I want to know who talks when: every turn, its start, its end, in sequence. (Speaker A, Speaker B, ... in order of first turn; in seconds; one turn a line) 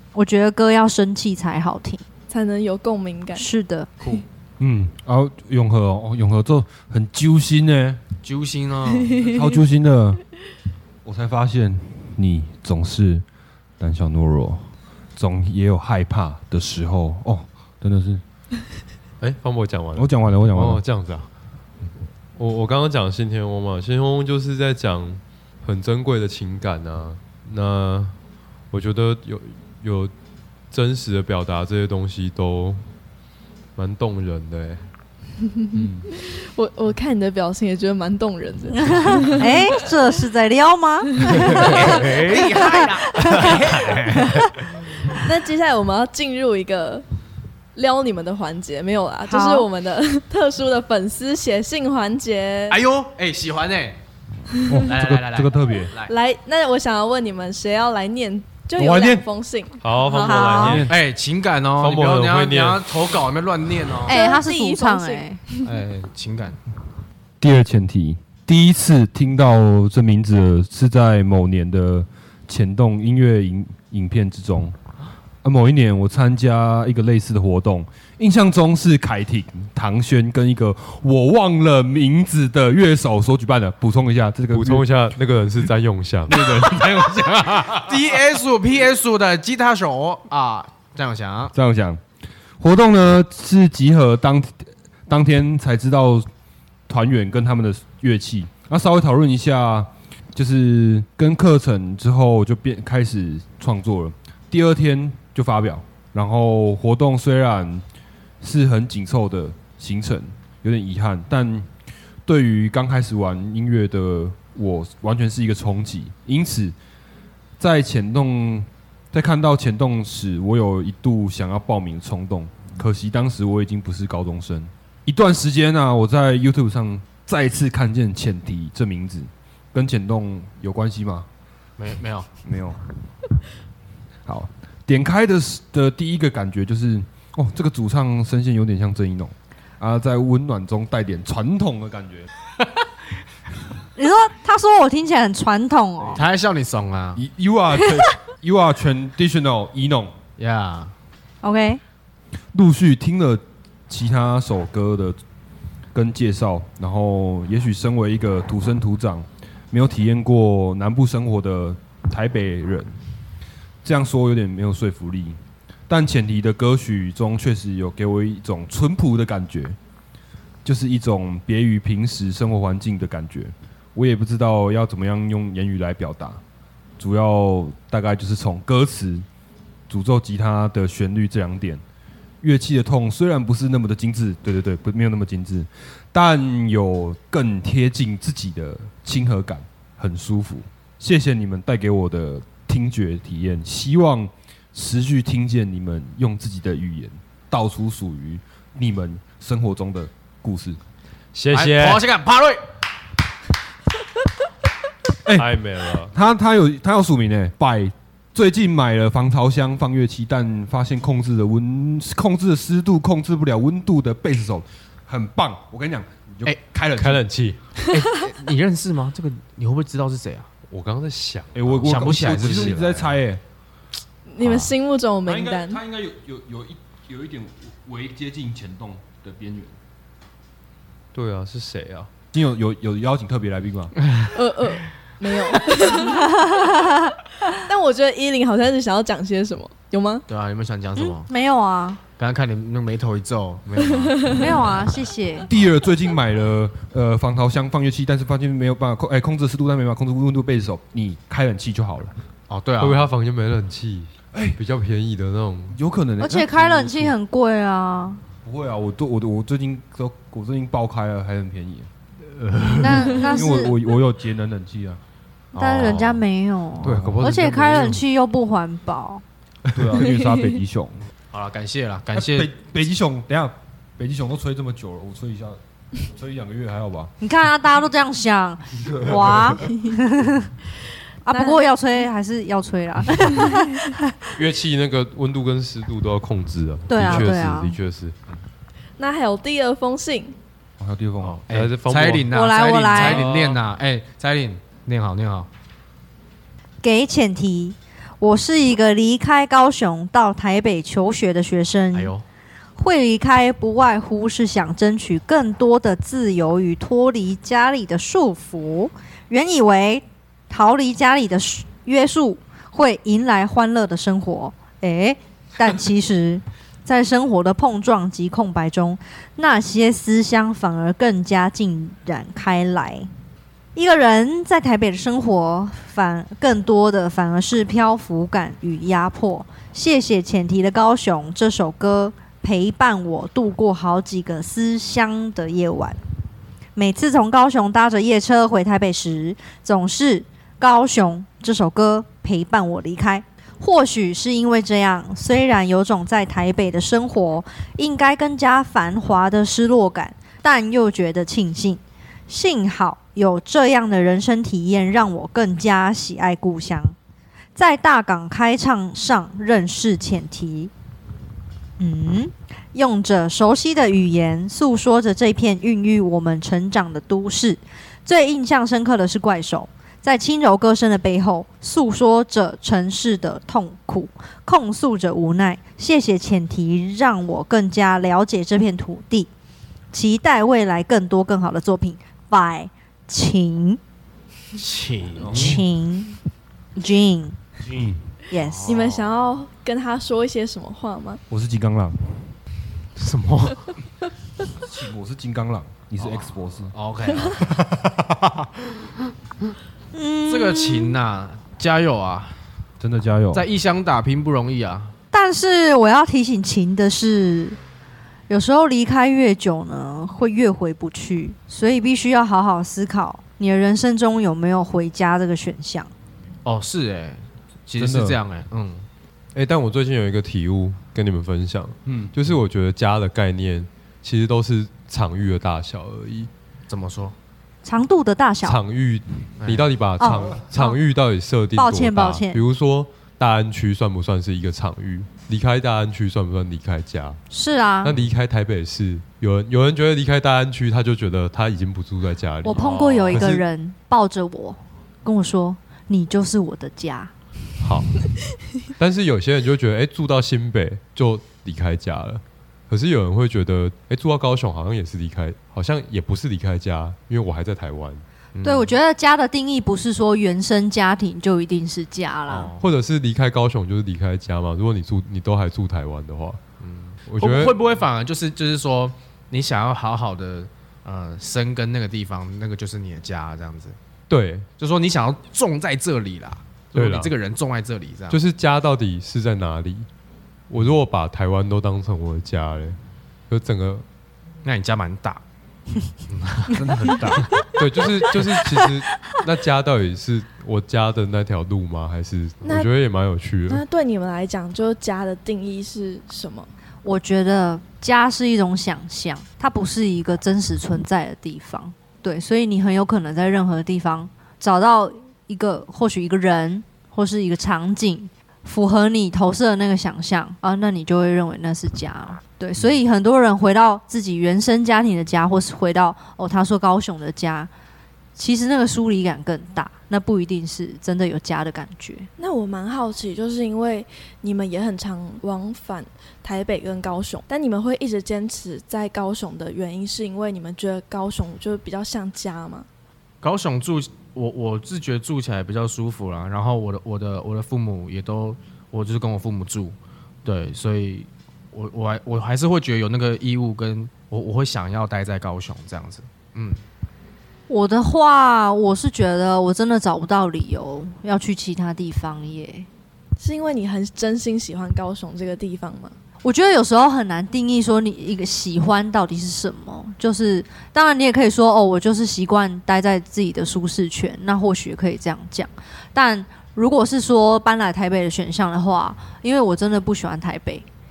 Speaker A: 0.1-2.0
Speaker B: 2.3-3.5
Speaker A: 3.3-3.9
Speaker C: 4.0-4.2
Speaker D: 4.6-8.0
Speaker C: 8.2-9.2
Speaker D: 9.2-10.2
Speaker D: 11.0-13.2
Speaker D: 13.8-18.2
Speaker E: 19.2-21.3
Speaker D: 19.9-20.8
Speaker E: 22.4-28.1
Speaker E: 28.7-30.1
Speaker E: 30.7-32.8
Speaker E: 33.8-34.8
Speaker B: 35.5-39.8
Speaker E: 35.7-36.0
Speaker A: 38.7-43.6
Speaker B: 41.2-42.1
Speaker C: 41.5-44.4
Speaker A: 44.2-44.5
Speaker B: 45.1-47.0
Speaker B: 47.7-52.8
Speaker A: 49.2-49.7
Speaker C: 52.7-54.0
Speaker D: 54.6-55.9
Speaker C: 54.8-56.1
Speaker B: 56.0-60.6
Speaker D: 58.8-59.2
Speaker E: 59.8-60.9
Speaker A: 60.1-60.8
Speaker D: 60.5-61.0
Speaker C: 60.9-64.1
Speaker E: 61.8-62.8
Speaker B: 64.0-65.7
Speaker A: 64.1-65.4
Speaker C: 65.6-66.6
Speaker D: 67.4-74.7
Speaker D: 75.4-84.9
Speaker E: 84.5-86.8
Speaker D: 86.3-87.9
Speaker C: 87.7-91.5
Speaker D: 91.5-92.0
Speaker D: 92.6-96.3
Speaker D: 96.9-107.8
Speaker D: 108.4-111.7
Speaker D: 112.2-116.7
Speaker D: 117.6-131.2
Speaker C: 131.8-132.3
Speaker D: 132.4-132.8
Speaker D: 134.2-142.3
Speaker A: 143.9-146.2
Speaker C: 146.1-147.2
Speaker D: 147.1-150.1
Speaker C: 150.4-150.9
Speaker A: 151.4-151.8
Speaker D: 152.5-155.2
Speaker D: 155.9-162.9
Speaker D: 163.8-165.4
Speaker D: 165.9-169.8
Speaker D: 170.6-176.4
Speaker D: 177.0-179.2
Speaker D: 179.9-181.8
Speaker D: 182.4-200.8
Speaker E: 201.3-202.0
Speaker C: 201.5-202.6
Speaker D: 205.2-205.5
Speaker E: 205.3-206.1
Speaker D: 206.1-217.2
Speaker E: 216.9-217.8
Speaker C: 217.9-220.5
Speaker E: 220.7-222.8
Speaker D: 221.5-223.4
Speaker C: 221.8-223.1
Speaker B: 224.3-225.8
Speaker C: 224.4-224.7
Speaker D: 225.2-229.7
Speaker E: 231.1-232.1
Speaker D: 232.3-233.9
Speaker C: 234.1-234.3
Speaker B: 234.3-236.5
Speaker A: 236.0-237.1
Speaker B: 237.7-240.2
Speaker C: 240.3-241.3
Speaker A: 240.9-242.0
Speaker C: 242.2-244.7
Speaker B: 244.0-244.6
Speaker A: 244.3-245.5
Speaker D: 245.5-252.1
Speaker C: 252.5-253.1
Speaker E: 252.8-255.8
Speaker D: 254.3-254.6
Speaker D: 255.7-257.1
Speaker A: 256.2-258.2
Speaker D: 258.4-261.9
Speaker C: 262.2-263.4
Speaker A: 262.8-263.8
Speaker D: 263.1-265.0
Speaker C: 265.5-266.2
Speaker A: 265.5-269.2
Speaker E: 266.8-268.0
Speaker D: 266.8-267.3
Speaker D: 269.7-271.0
Speaker B: 270.0-270.4
Speaker C: 271.3-272.5
Speaker D: 272.1-277.1
Speaker A: 277.2-280.5
Speaker D: 278.8-279.6
Speaker B: 279.6-280.0
Speaker A: 281.2-284.1
Speaker B: 281.3-281.6
Speaker E: 284.4-288.1
Speaker A: 286.9-287.8
Speaker D: 287.0-287.3
Speaker B: 289.0-290.4
Speaker D: 290.8-291.4
Speaker C: 291.2-295.5
Speaker E: 291.5-292.3
Speaker A: 292.3-293.2
Speaker E: 292.8-293.6
Speaker A: 296.8-302.1
Speaker C: 301.9-302.2
Speaker A: 302.8-323.1
Speaker A: 323.7-336.0
Speaker A: 336.8-356.9
Speaker A: 357.6-360.7
Speaker A: 361.8-379.3
Speaker A: 379.9-383.8
Speaker C: 384.5-385.6
Speaker D: 385.2-385.6
Speaker A: 385.3-386.2
Speaker A: 386.8-387.4
Speaker D: 387.6-388.1
Speaker A: 388.3-388.8
Speaker C: 388.3-389.2
Speaker B: 388.6-391.2
Speaker D: 391.3-392.3
Speaker C: 392.9-393.7
Speaker D: 394.6-396.7
Speaker C: 396.0-397.5
Speaker D: 397.4-398.2
Speaker A: 399.9-401.0
Speaker C: 400.3-402.4
Speaker D: 402.8-403.5
Speaker C: 403.3-404.9
Speaker A: 405.1-407.6
Speaker A: 408.3-415.9
Speaker C: 416.4-418.9
Speaker D: 417.8-418.2
Speaker E: 419.3-426.3
Speaker D: 421.9-422.1
Speaker C: 426.7-427.1
Speaker A: 427.6-428.6
Speaker E: 428.4-437.2
Speaker C: 429.4-429.7
Speaker A: 430.0-430.8
Speaker A: 431.5-432.4
Speaker A: 437.3-437.9
Speaker E: 437.8-443.4
Speaker A: 442.4-447.1
Speaker C: 442.5-443.2
Speaker E: 447.6-448.0
Speaker E: 448.7-458.0
Speaker C: 458.3-458.7
Speaker A: 458.4-462.5
Speaker C: 462.3-462.6
Speaker E: 462.6-466.4
Speaker C: 466.6-473.8
Speaker E: 467.0-467.6
Speaker E: 474.1-474.5
Speaker C: 474.6-478.2
Speaker E: 476.7-477.1
Speaker E: 478.1-479.9
Speaker E: 480.5-483.9
Speaker C: 484.4-485.2
Speaker C: 486.1-487.2
Speaker D: 486.5-487.3
Speaker E: 487.6-493.6
Speaker B: 492.4-492.7
Speaker B: 493.5-496.5
Speaker A: 496.8-517.5
Speaker A: 518.1-522.1
Speaker B: 522.2-532.7
Speaker C: 533.2-546.6
Speaker A: 547.5-552.7
Speaker B: 553.2-555.9
Speaker A: 556.2-570.6